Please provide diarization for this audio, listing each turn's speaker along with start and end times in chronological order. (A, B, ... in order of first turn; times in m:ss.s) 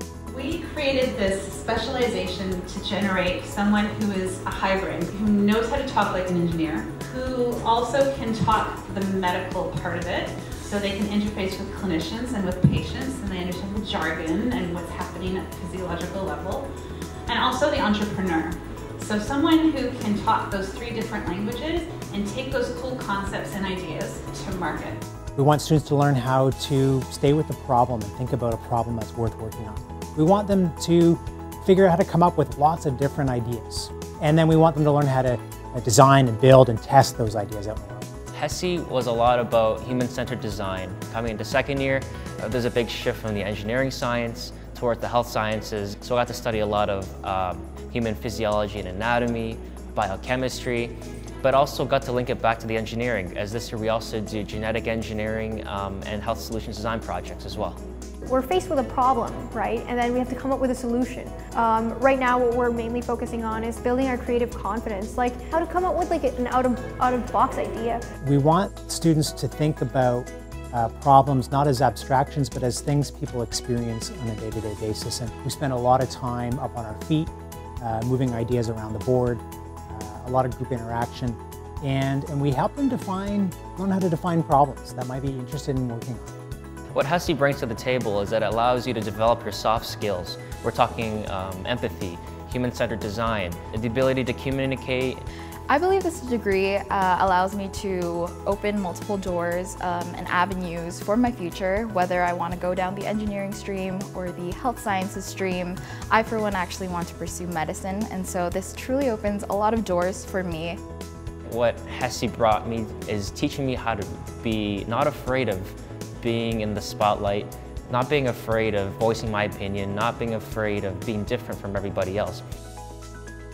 0:00.3-0:16.7 A
0:17.3-0:25.0 A
0:25.4-0:38.1 B
0:38.3-0:57.8 C
0:58.3-1:08.0 D
1:08.2-1:26.3 B
1:26.9-1:35.2 C
1:35.7-1:50.8 E
1:51.5-2:02.4 C